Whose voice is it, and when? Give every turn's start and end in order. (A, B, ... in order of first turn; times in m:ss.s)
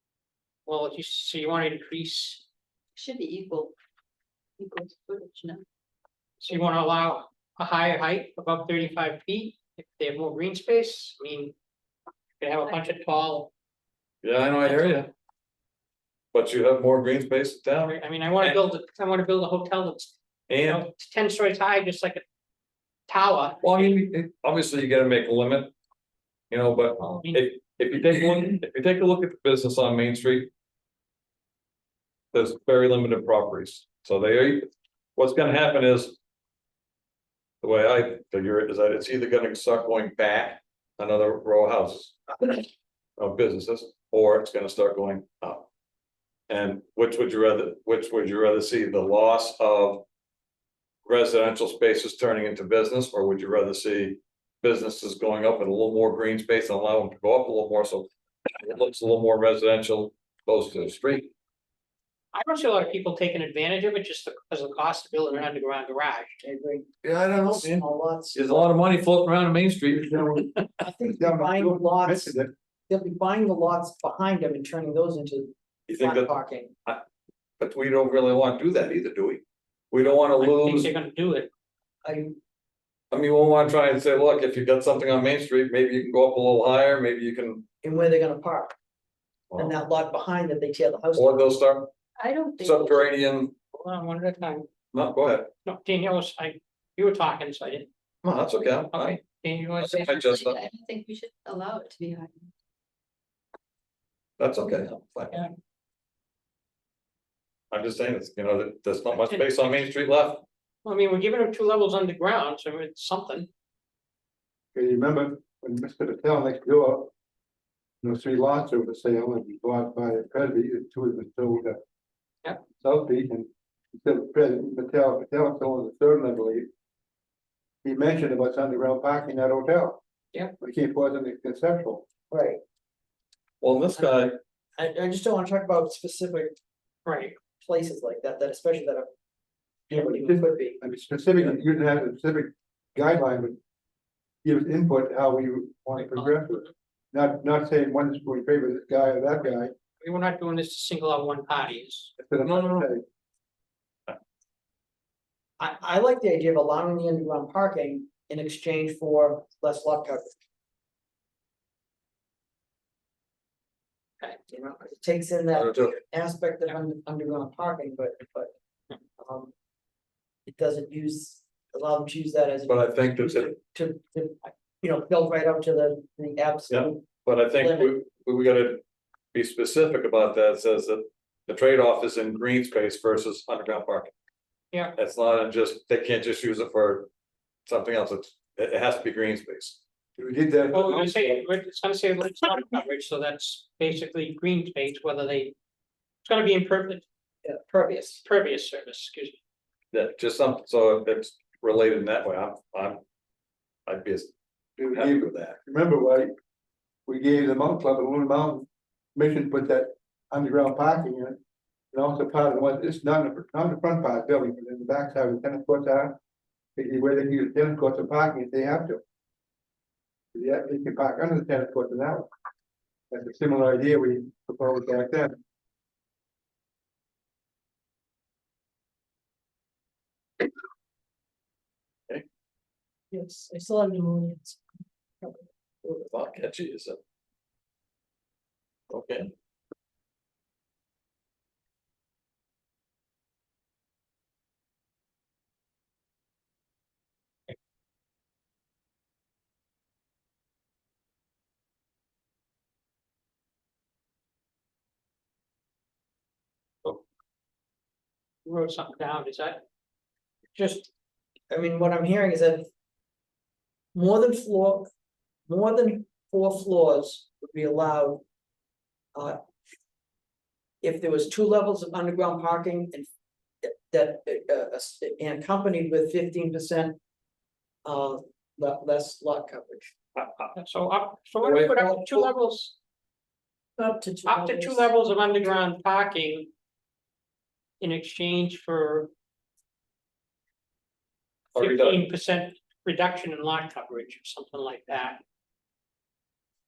0:00.7-0:02.4 A
0:03.0-0:03.7 B
0:04.6-0:05.6 B
0:06.4-0:11.5 A
0:12.4-0:13.5 A
0:14.2-0:15.1 C
0:14.6-0:15.1 A
0:16.3-0:18.6 C
0:17.9-0:20.1 A
0:20.5-0:20.8 C
0:20.7-0:22.2 A
0:23.1-0:23.8 A
0:23.6-0:25.7 C
0:26.5-0:30.5 C
0:27.0-0:27.5 A
0:32.3-0:36.2 C
0:37.6-0:42.6 C
0:43.2-0:45.7 C
0:46.5-0:50.0 C
0:51.1-1:01.3 C
1:02.3-1:06.4 A
1:06.4-1:08.7 D
1:07.0-1:10.5 C
1:10.0-1:10.5 E
1:10.8-1:12.3 D
1:11.0-1:12.5 E
1:12.9-1:16.7 D
1:15.9-1:16.3 C
1:17.6-1:20.9 C
1:20.1-1:21.5 A
1:22.0-1:22.4 D
1:23.1-1:27.6 C
1:27.8-1:28.7 D
1:29.6-1:31.5 D
1:31.1-1:31.9 C
1:32.2-1:33.1 B
1:32.6-1:33.5 C
1:33.7-1:34.7 A
1:34.9-1:35.5 C
1:35.7-1:37.9 A
1:38.2-1:39.2 C
1:38.9-1:40.2 A
1:39.8-1:40.6 C
1:40.0-1:42.5 B
1:44.4-1:45.4 C
1:47.7-1:50.4 C
1:49.1-1:49.6 A
1:50.8-1:53.5 A
1:54.7-1:57.1 E
1:58.0-2:01.8 E
2:02.8-2:06.7 E
2:07.8-2:10.0 E
2:10.6-2:12.0 E
2:12.3-2:12.6 D
2:13.6-2:14.4 C
2:14.8-2:16.5 D
2:17.1-2:17.4 A
2:17.6-2:19.1 D
2:19.9-2:20.8 D
2:19.9-2:23.6 E
2:24.4-2:29.7 E
2:25.9-2:26.7 A
2:30.0-2:32.1 A
2:32.2-2:33.0 E
2:35.6-2:40.3 D
2:44.5-2:48.5 D
2:45.5-2:46.0 C
2:49.2-2:49.5 D
2:50.5-2:57.1 D
2:52.7-2:53.5 C
2:56.7-2:58.8 C
2:57.6-2:57.9 D
2:59.3-3:04.1 C
3:05.0-3:07.1 C
3:07.7-3:09.8 C
3:10.2-3:11.5 E
3:10.7-3:15.5 A
3:16.2-3:17.0 A
3:17.4-3:18.2 D
3:18.2-3:19.4 A
3:19.9-3:23.0 C
3:23.9-3:24.3 C
3:24.8-3:26.3 E
3:24.9-3:25.6 C
3:27.1-3:31.4 E
3:31.9-3:36.2 E
3:36.8-3:39.0 E
3:40.3-3:42.3 E
3:43.1-3:45.4 E
3:53.1-3:54.6 D
3:55.8-3:57.0 C
3:58.9-3:59.3 C
4:18.5-4:19.6 A
4:20.5-4:20.9 A
4:21.5-4:22.7 D
4:23.9-4:24.9 D
4:25.5-4:28.2 D
4:30.8-4:33.1 D
4:33.6-4:37.0 D
4:37.8-4:39.9 D
4:40.2-4:40.5 C
4:40.5-4:42.7 A
4:41.4-4:41.7 C
4:43.8-4:44.9 D
4:44.2-4:46.5 A
4:47.8-4:49.1 A
4:51.5-4:55.2 A
4:51.6-4:52.0 C